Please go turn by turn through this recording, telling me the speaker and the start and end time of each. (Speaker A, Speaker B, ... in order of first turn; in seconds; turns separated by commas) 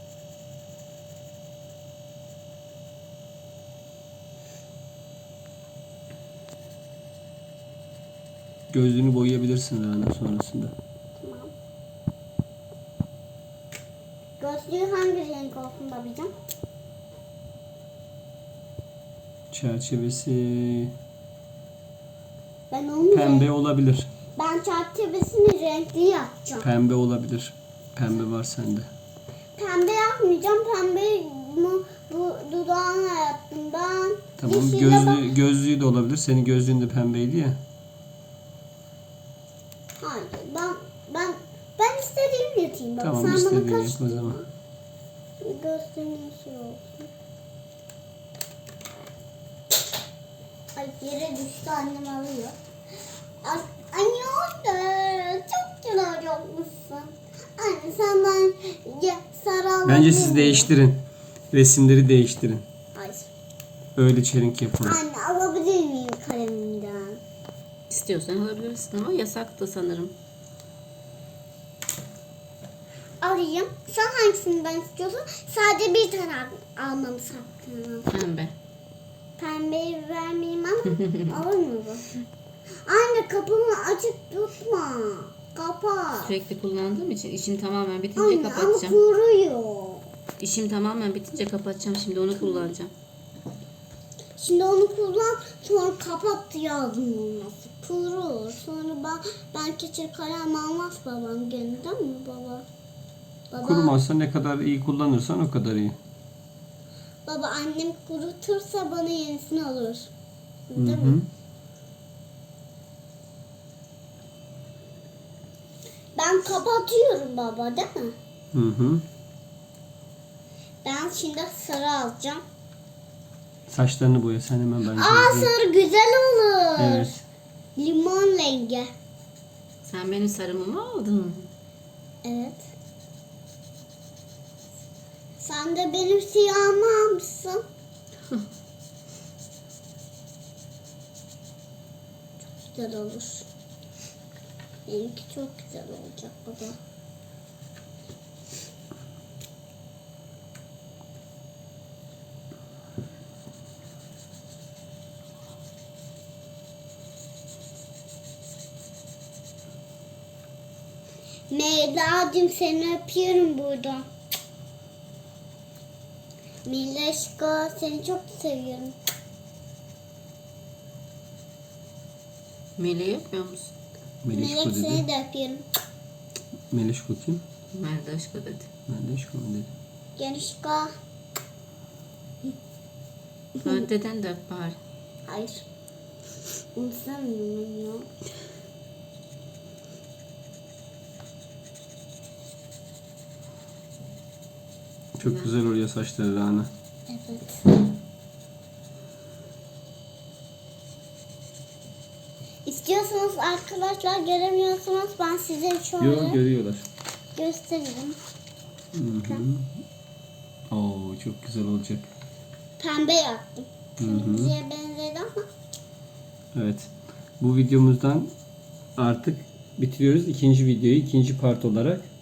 Speaker A: 8.7-10.7, Speaker B: 11.2-11.5, Speaker B: 14.4-16.3, Speaker A: 19.5-20.9, Speaker B: 22.7-23.5, Speaker A: 23.1-24.1, Speaker B: 24.4-26.7, Speaker A: 26.6-28.9, Speaker B: 29.6-35.3, Speaker A: 34.4-37.6, Speaker B: 40.0-44.5, Speaker A: 43.0-44.4, Speaker B: 45.4-47.1, Speaker B: 50.8-52.5, Speaker B: 53.4-60.7, Speaker A: 59.9-62.6, Speaker B: 62.9-63.3, Speaker A: 64.0-65.0, Speaker B: 64.8-67.2, Speaker C: 67.9-70.2, Speaker B: 73.2-78.2, Speaker C: 78.1-78.5, Speaker B: 79.4-82.0, Speaker B: 82.9-86.3, Speaker C: 86.2-89.0, Speaker B: 88.2-90.0, Speaker C: 90.4-92.9, Speaker B: 92.4-92.7, Speaker B: 94.4-102.7, Speaker B: 103.5-104.0, Speaker A: 103.6-106.0, Speaker B: 107.3-110.1, Speaker B: 110.7-111.2, Speaker A: 110.8-111.3, Speaker B: 116.2-118.2, Speaker A: 118.5-119.1, Speaker B: 120.8-122.4, Speaker A: 123.7-125.5, Speaker B: 124.9-127.1, Speaker A: 126.8-127.2, Speaker B: 127.8-128.9, Speaker C: 129.8-131.5, Speaker B: 132.2-132.7, Speaker B: 135.4-137.6, Speaker B: 142.6-143.5, Speaker B: 144.9-146.8, Speaker B: 161.5-164.1, Speaker B: 166.7-169.0, Speaker C: 172.8-173.7, Speaker A: 174.2-175.1, Speaker B: 174.3-175.7, Speaker A: 176.7-177.4, Speaker C: 177.7-178.7, Speaker A: 178.9-179.7, Speaker B: 180.2-180.9, Speaker C: 183.6-184.8, Speaker B: 185.3-185.6, Speaker B: 186.8-188.1, Speaker A: 195.2-196.7, Speaker B: 197.1-197.9, Speaker B: 202.7-206.4, Speaker A: 206.0-206.9, Speaker B: 207.4-208.2, Speaker A: 208.9-209.7, Speaker A: 210.7-212.1, Speaker B: 212.8-215.4, Speaker A: 214.0-214.5, Speaker A: 216.6-218.3, Speaker A: 219.0-222.1